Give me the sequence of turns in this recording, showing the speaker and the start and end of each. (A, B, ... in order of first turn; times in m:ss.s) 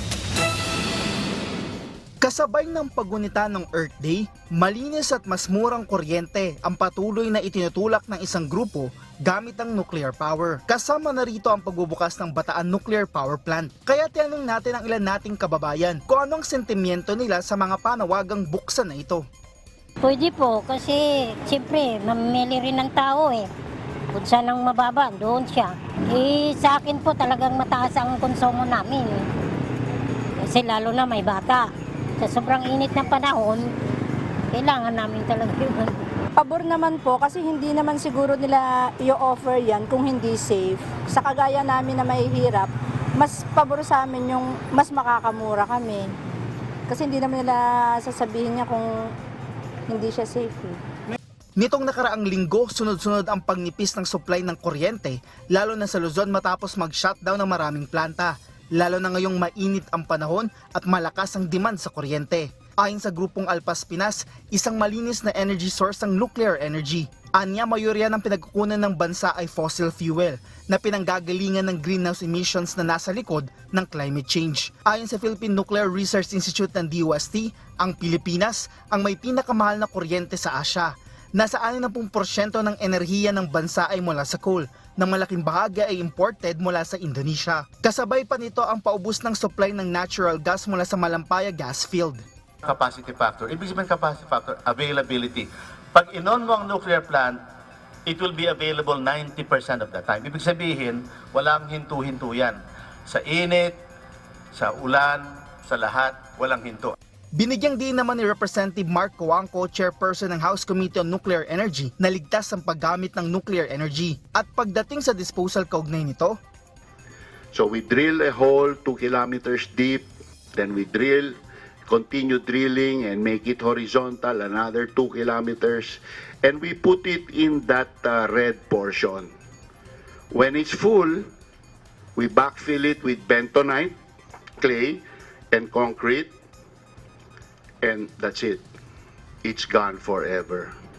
0:02.2-0:19.2 A
0:20.0-0:23.5 B
0:24.1-0:29.2 B
0:30.4-0:31.7 B
0:32.2-0:33.6 B
0:34.5-0:36.0 B
0:36.4-0:46.2 C
0:46.9-0:49.2 C
0:49.9-0:50.8 C
0:51.6-1:32.2 A
1:32.6-1:37.4 D
1:38.1-1:43.8 D
1:44.5-1:47.0 D
1:47.4-1:56.4 A
1:57.5-2:09.3 E
2:10.3-2:11.3 E
2:12.2-2:14.0 E
2:14.6-2:16.3 E
2:17.8-2:18.6 E
2:19.4-2:20.7 E